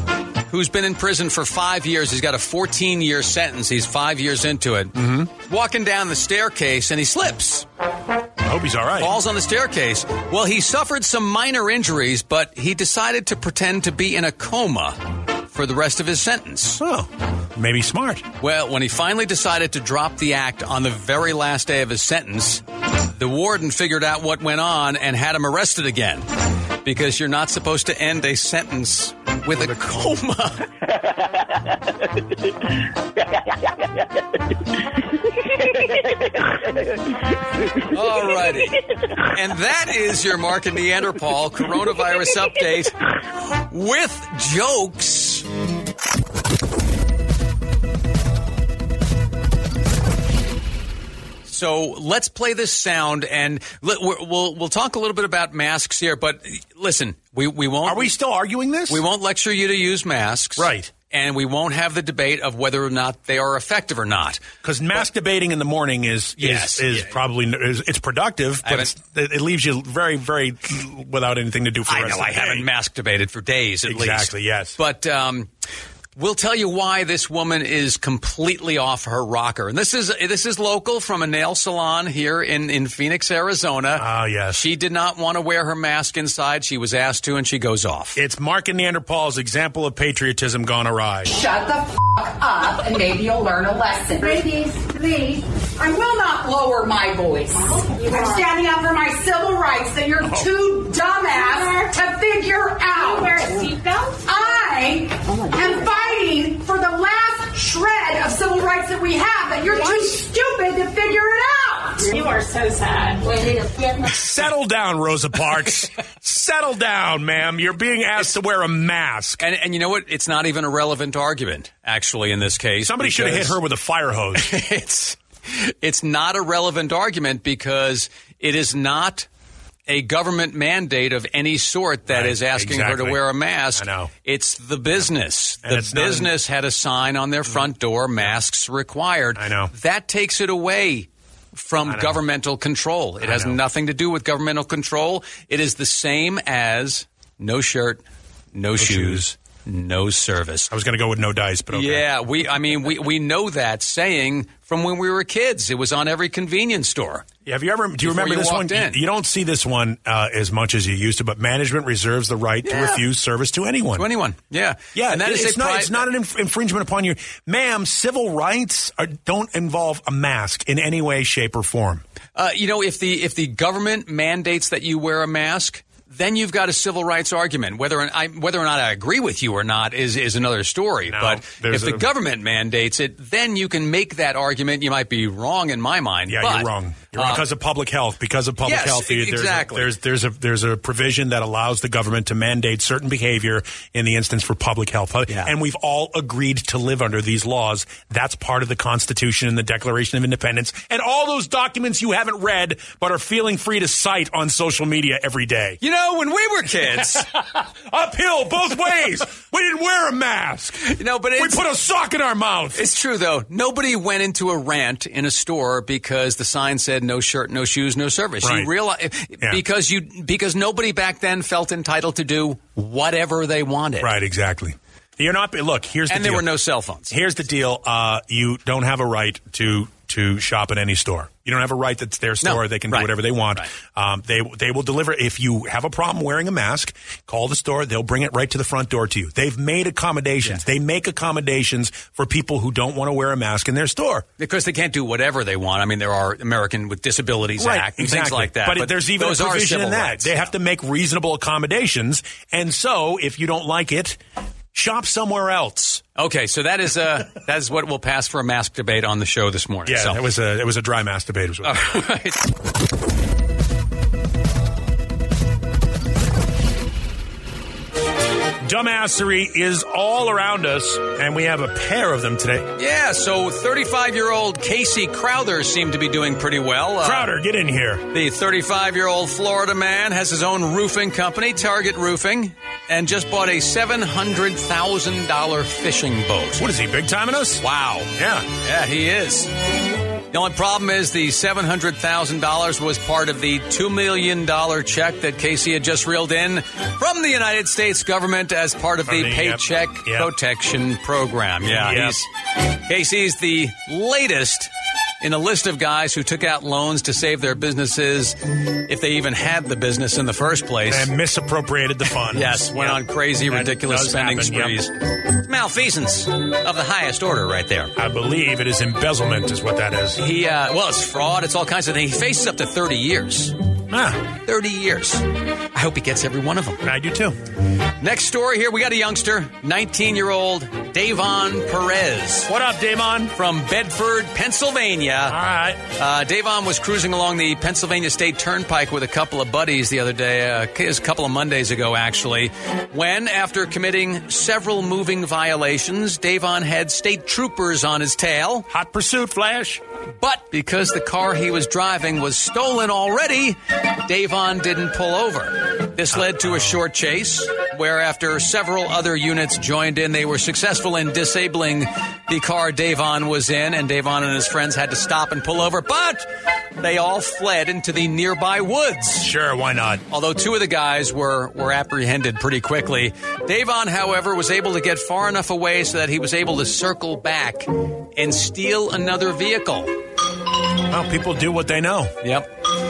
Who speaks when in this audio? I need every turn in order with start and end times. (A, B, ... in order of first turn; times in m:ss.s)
0:00.5-0:07.7 A
0:05.0-0:05.3 B
0:08.4-0:09.1 B
0:09.0-0:15.0 A
0:15.5-0:16.8 A
0:16.8-0:18.3 B
0:18.4-0:26.3 A
0:26.8-0:30.7 A
0:37.9-0:43.0 A
0:43.7-0:45.5 A
0:51.5-0:58.1 A
0:57.8-0:59.0 B
0:58.9-1:04.4 A
1:00.6-1:00.9 B
1:04.6-1:12.7 B
1:06.4-1:07.1 A
1:08.6-1:08.9 A
1:11.9-1:15.5 A
1:13.9-1:14.8 B
1:16.2-1:28.2 A
1:24.0-1:24.6 B
1:28.2-1:31.3 B
1:31.3-1:43.5 C
1:40.2-1:40.5 B
1:43.0-1:44.2 D
1:44.2-1:52.1 C
1:52.1-1:53.8 D
1:54.0-1:59.4 B
1:59.4-2:03.6 A
2:02.8-2:04.5 B
2:04.4-2:09.3 A
2:09.9-2:28.0 A
2:12.1-2:13.2 B
2:13.8-2:14.1 B
2:15.6-2:16.3 B
2:19.4-2:19.7 B
2:21.9-2:22.2 B
2:23.2-2:23.6 B
2:28.5-2:30.7 A
2:28.8-2:29.3 B
2:30.7-2:32.1 B
2:31.7-2:37.3 A
2:37.5-2:44.1 B
2:38.0-2:39.0 A
2:42.7-2:43.0 A
2:44.0-2:46.0 A
2:45.0-2:52.0 B
2:52.4-3:07.4 A
3:01.1-3:02.1 B
3:06.3-3:25.8 B
3:08.6-3:09.9 A
3:25.8-3:27.3 A
3:26.9-3:32.8 B
3:30.8-3:31.6 A
3:32.8-3:44.1 A
3:38.4-3:38.7 B
3:44.0-3:46.5 B
3:46.1-3:47.1 A
3:47.1-4:04.3 B
3:52.4-3:53.7 A
4:04.4-4:10.4 A
4:07.6-4:14.2 B
4:14.7-4:16.0 B
4:16.2-4:20.2 A
4:19.9-4:22.0 B
4:21.6-4:22.5 A
4:28.6-4:32.7 B
4:32.8-4:37.3 A
4:37.0-4:38.1 B
4:38.1-4:46.6 A
4:46.6-4:47.6 B
4:47.6-4:49.5 A
4:48.2-4:48.5 B
4:50.3-5:04.7 A
4:59.1-5:00.3 B
5:01.6-5:02.2 B
5:05.2-5:11.1 A
5:10.9-5:14.8 B
5:12.3-5:17.9 A
5:18.0-5:20.2 B
5:20.2-5:23.6 A
5:23.9-5:24.2 B
5:24.4-5:26.8 A
5:26.8-5:27.4 B
5:28.0-5:32.5 A
5:32.5-5:33.3 B
5:33.3-5:35.4 A
5:35.3-5:35.8 B
5:36.0-5:48.7 A
5:48.7-5:49.8 B
5:50.2-6:06.3 A
5:56.1-5:56.8 B
6:06.8-6:09.3 A
6:09.2-6:10.0 B
6:10.1-6:20.0 A
6:20.9-6:22.2 B
6:22.2-6:22.5 A